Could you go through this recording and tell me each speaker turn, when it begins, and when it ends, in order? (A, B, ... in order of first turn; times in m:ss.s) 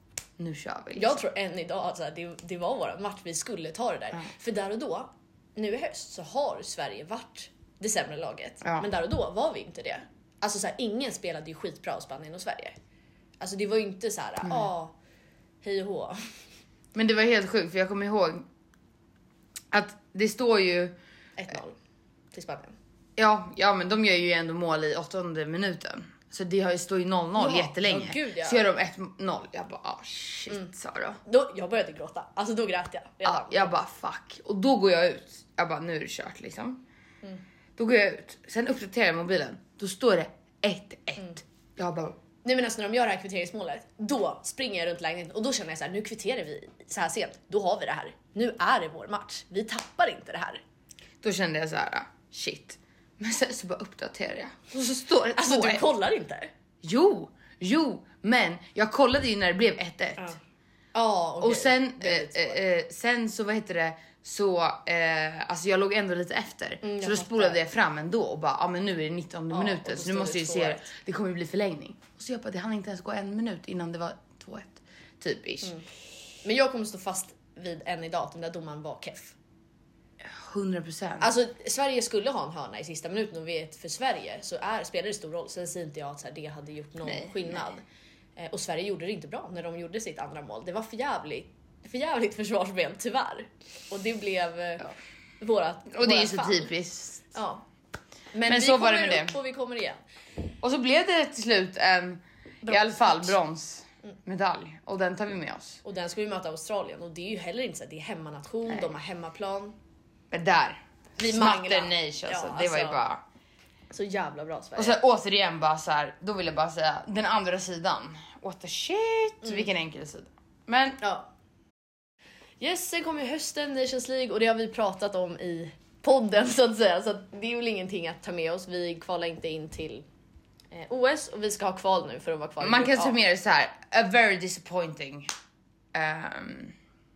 0:00.4-0:01.2 A
0:00.9-0:12.7 B
0:08.6-0:08.9 A
0:13.4-0:14.9 B
0:14.4-0:14.7 A
0:15.6-0:16.2 B
0:16.9-0:18.4 A
0:19.7-0:20.9 A
0:21.4-0:21.8 B
0:22.3-0:22.8 B
0:23.2-0:31.2 A
0:27.4-0:28.6 B
0:31.2-0:33.7 B
0:33.2-0:36.8 A
0:37.8-0:42.2 A
0:42.4-0:50.6 B
0:51.2-0:55.9 A
0:55.3-0:56.5 B
0:56.8-1:00.4 A
1:00.9-1:02.6 B
1:01.4-1:15.8 A
1:06.8-1:07.6 B
1:09.5-1:10.9 B
1:16.4-1:19.4 B
1:20.2-1:21.3 A
1:21.2-1:27.8 B
1:27.0-1:27.6 A
1:28.4-1:36.7 B
1:35.9-1:37.2 A
1:37.3-1:37.6 B
1:38.3-1:40.0 B
1:38.4-1:39.3 A
1:40.6-1:45.8 A
1:42.6-1:43.4 B
1:45.8-1:49.7 B
1:50.3-1:53.2 A
1:51.2-1:53.0 B
1:53.9-1:55.0 B
1:54.8-2:01.0 A
2:01.0-2:01.3 B
2:02.6-2:10.0 B
2:10.7-2:13.2 B
2:12.6-2:15.3 A
2:15.9-2:16.7 A